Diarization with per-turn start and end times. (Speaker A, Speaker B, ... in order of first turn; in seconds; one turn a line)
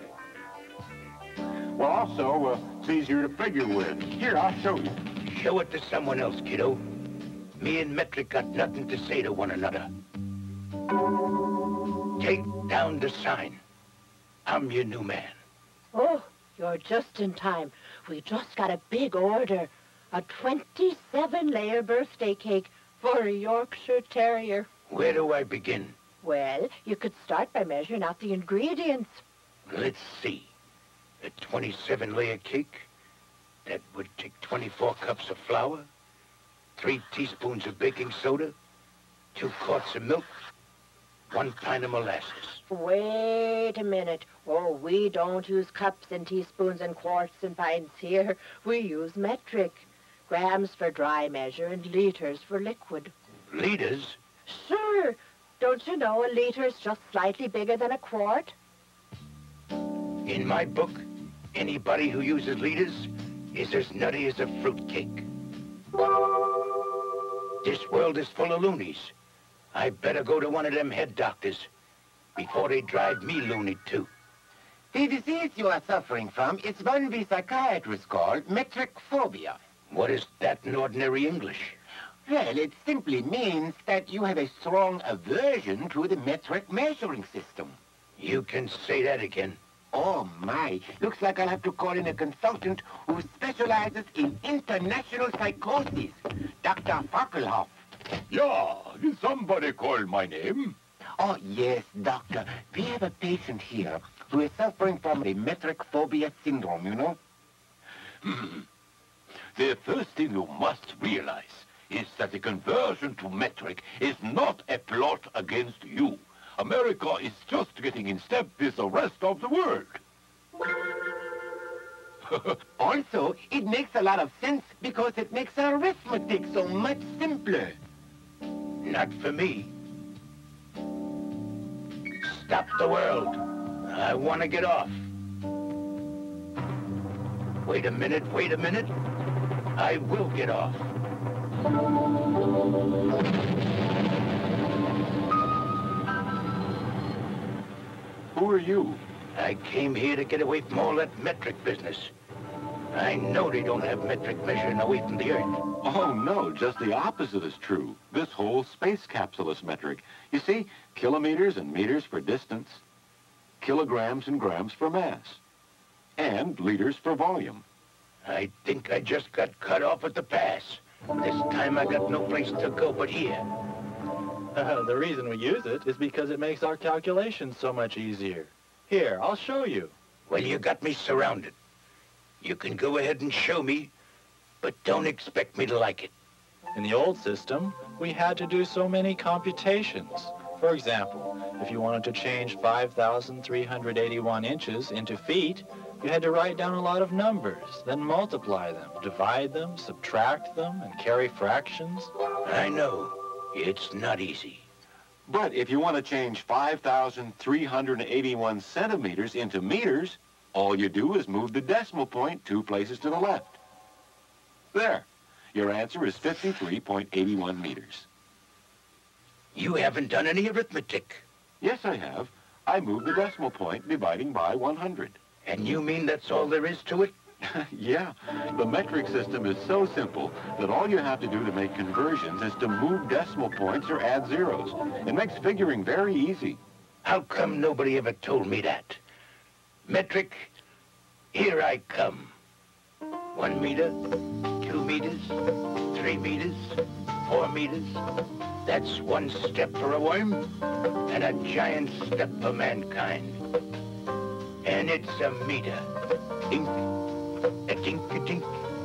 Speaker A: 1.7-5.0
Speaker B: 5.2-6.8
Speaker B: 7.6-9.9
Speaker B: 12.2-13.6
Speaker B: 14.4-15.4
Speaker C: 15.9-24.7
Speaker B: 24.9-25.9
Speaker C: 26.2-29.2
Speaker B: 29.7-30.5
Speaker B: 31.2-32.9
Speaker B: 33.6-35.9
Speaker B: 36.8-38.5
Speaker B: 39.3-40.3
Speaker B: 41.3-42.6
Speaker C: 42.7-53.1
Speaker B: 53.5-54.2
Speaker C: 54.5-58.5
Speaker B: 60.2-65.2
Speaker B: 67.6-69.1
Speaker B: 69.7-71.7
Speaker B: 72.3-74.1
Speaker D: 74.9-79.6
Speaker B: 79.9-81.8
Speaker D: 82.2-87.8
Speaker B: 88.2-89.6
Speaker D: 89.9-97.8
Speaker E: 98.3-100.8
Speaker D: 101.2-107.2
Speaker E: 108.2-108.6
Speaker E: 109.5-120.0
Speaker D: 122.8-127.8
Speaker B: 128.8-129.7
Speaker B: 132.2-135.1
Speaker B: 137.6-138.9
Speaker B: 139.8-140.9
Speaker E: 148.3-149.0
Speaker B: 149.3-152.1
Speaker B: 152.9-155.6
Speaker E: 155.8-162.8
Speaker E: 163.6-165.4
Speaker E: 166.2-167.6
Speaker B: 168.2-173.5
Speaker F: 174.5-179.9
Speaker B: 180.3-181.6
Speaker B: 182.4-183.9
Speaker B: 184.6-186.1
Speaker F: 186.7-202.1
Speaker B: 202.4-204.6
Speaker E: 205.2-213.6
Speaker E: 214.7-218.1
Speaker B: 219.5-221.2
Speaker E: 221.6-225.2
Speaker B: 225.4-227.1
Speaker E: 227.4-236.6
Speaker B: 237.0-239.0
Speaker B: 239.8-240.5
Speaker B: 241.3-242.3
Speaker B: 243.3-244.0
Speaker B: 244.6-248.0
Speaker B: 248.6-250.4
Speaker B: 251.1-253.4
Speaker B: 254.6-255.9
Speaker B: 257.7-258.6